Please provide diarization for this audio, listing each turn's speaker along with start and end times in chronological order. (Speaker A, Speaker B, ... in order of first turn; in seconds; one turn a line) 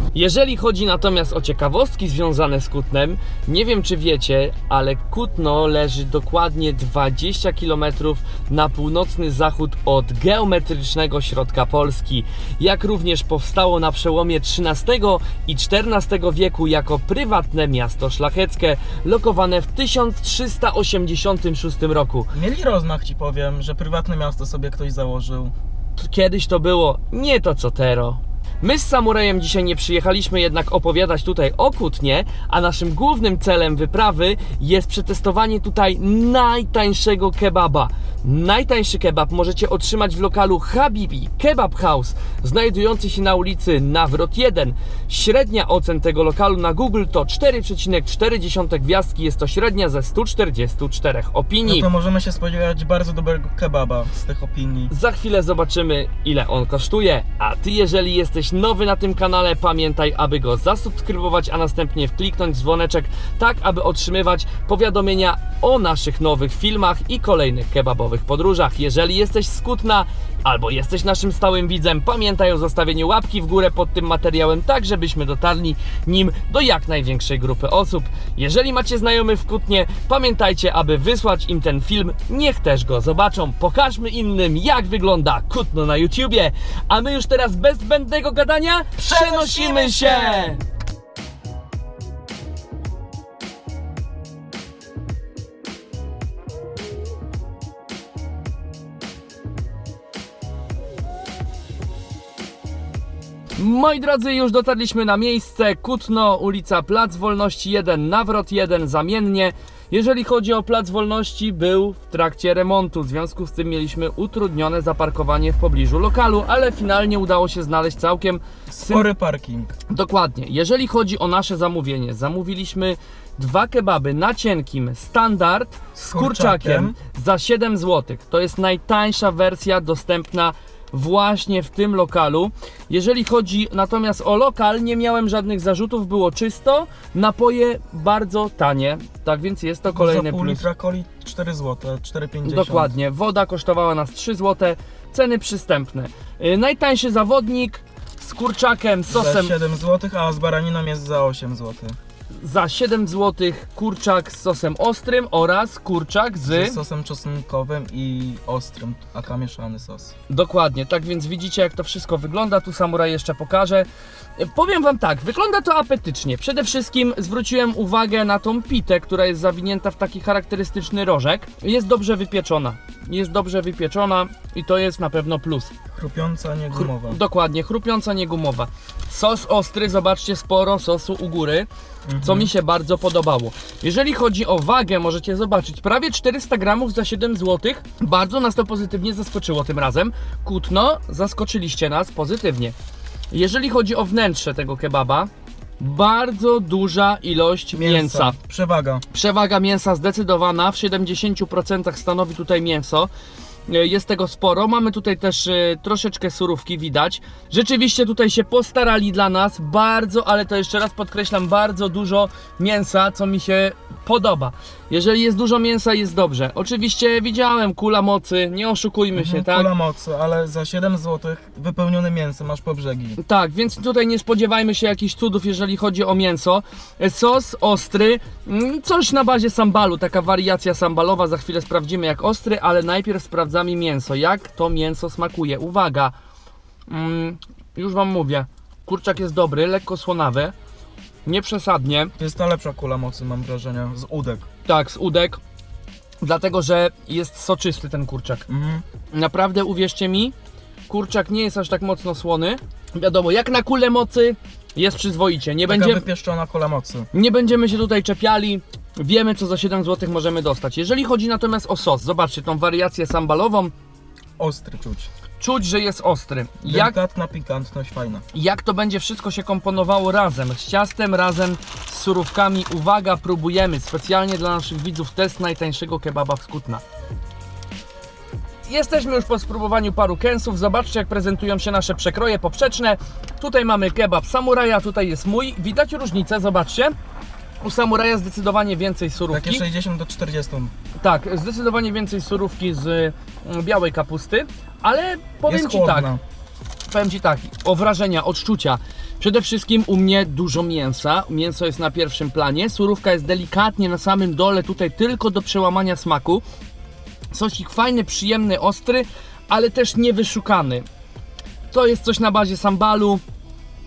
Speaker A: 0.1-22.3
Speaker B: 22.3-25.5
Speaker A: 26.0-51.9
Speaker B: 51.6-54.9
Speaker A: 54.9-90.6
Speaker B: 89.0-90.5
Speaker A: 103.6-119.1
Speaker B: 118.7-119.8
Speaker A: 119.9-140.6
Speaker B: 126.0-126.9
Speaker B: 139.9-142.9
Speaker A: 142.4-149.5
Speaker B: 149.1-151.9
Speaker A: 152.4-156.8
Speaker B: 156.4-160.1
Speaker A: 160.3-175.7
Speaker B: 175.9-177.2
Speaker A: 176.7-181.7
Speaker B: 182.1-182.5
Speaker A: 182.2-192.7
Speaker A: 193.3-198.3
Speaker B: 197.7-199.0
Speaker A: 199.1-203.1
Speaker A: 203.7-219.7
Speaker B: 219.1-223.2
Speaker A: 223.2-236.1
Speaker A: 236.9-240.5
Speaker A: 241.2-242.1
Speaker B: 242.2-244.5
Speaker A: 244.7-245.4
Speaker A: 246.2-248.4
Speaker B: 248.5-248.8
Speaker A: 249.1-250.3
Speaker A: 250.9-256.0
Speaker B: 255.7-257.1
Speaker A: 257.1-263.7
Speaker B: 264.4-265.1
Speaker A: 265.4-266.9
Speaker B: 266.6-268.2
Speaker A: 268.3-276.8
Speaker A: 278.6-286.9
Speaker A: 287.6-289.6
Speaker B: 289.3-290.7
Speaker A: 291.0-296.1
Speaker B: 295.5-296.2
Speaker A: 296.9-306.4
Speaker A: 307.3-310.8
Speaker A: 311.7-313.2